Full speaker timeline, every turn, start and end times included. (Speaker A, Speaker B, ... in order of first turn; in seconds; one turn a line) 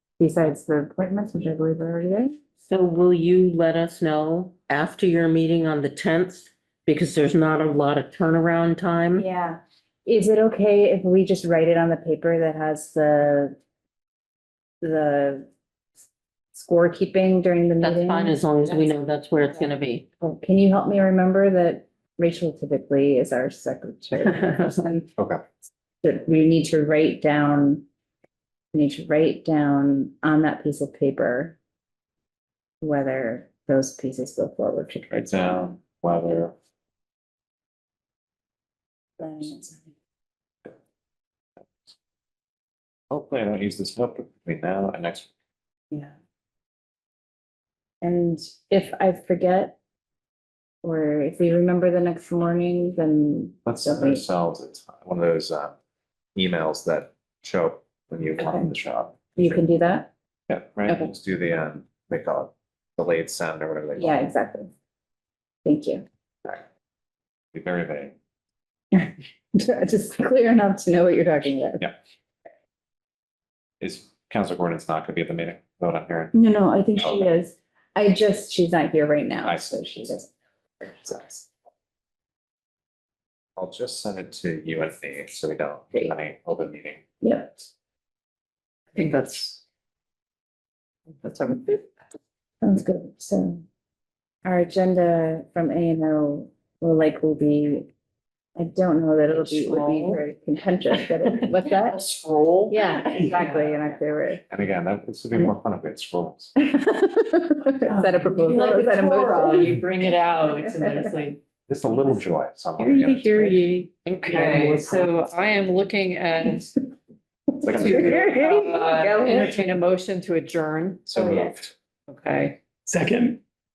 Speaker A: 0.2-2.3
Speaker B: 2.6-9.2
Speaker A: 9.1-13.5
Speaker A: 14.8-15.5
Speaker A: 16.5-18.4
Speaker B: 17.8-20.1
Speaker A: 20.2-25.1
Speaker C: 24.2-24.5
Speaker A: 26.0-27.8
Speaker A: 28.7-31.6
Speaker A: 32.8-35.8
Speaker D: 35.1-36.5
Speaker A: 39.2-39.8
Speaker D: 43.1-45.3
Speaker A: 48.0-49.8
Speaker A: 50.8-54.2
Speaker D: 53.6-55.7
Speaker D: 56.3-59.5
Speaker A: 58.4-58.7
Speaker A: 59.3-60.1
Speaker D: 60.5-64.2
Speaker A: 64.0-64.7
Speaker A: 65.6-66.0
Speaker D: 67.5-68.1
Speaker A: 68.9-71.9
Speaker D: 73.8-76.3
Speaker A: 76.3-81.5
Speaker D: 77.0-77.3
Speaker D: 79.4-80.1
Speaker D: 83.5-87.0
Speaker A: 87.2-87.7
Speaker C: 88.9-89.6
Speaker C: 91.1-91.9
Speaker A: 92.6-93.6
Speaker A: 94.4-97.9
Speaker A: 98.6-102.0
Speaker C: 99.3-100.2
Speaker C: 101.0-103.9
Speaker A: 102.7-104.4
Speaker D: 104.5-106.5
Speaker A: 106.6-109.8
Speaker C: 107.8-111.4
Speaker D: 111.7-113.5
Speaker C: 112.8-116.8
Speaker A: 112.8-113.8
Speaker B: 114.1-115.0
Speaker A: 117.6-119.7
Speaker D: 117.6-118.2
Speaker C: 117.6-121.0
Speaker D: 121.0-121.7
Speaker A: 121.1-121.6
Speaker C: 122.1-123.4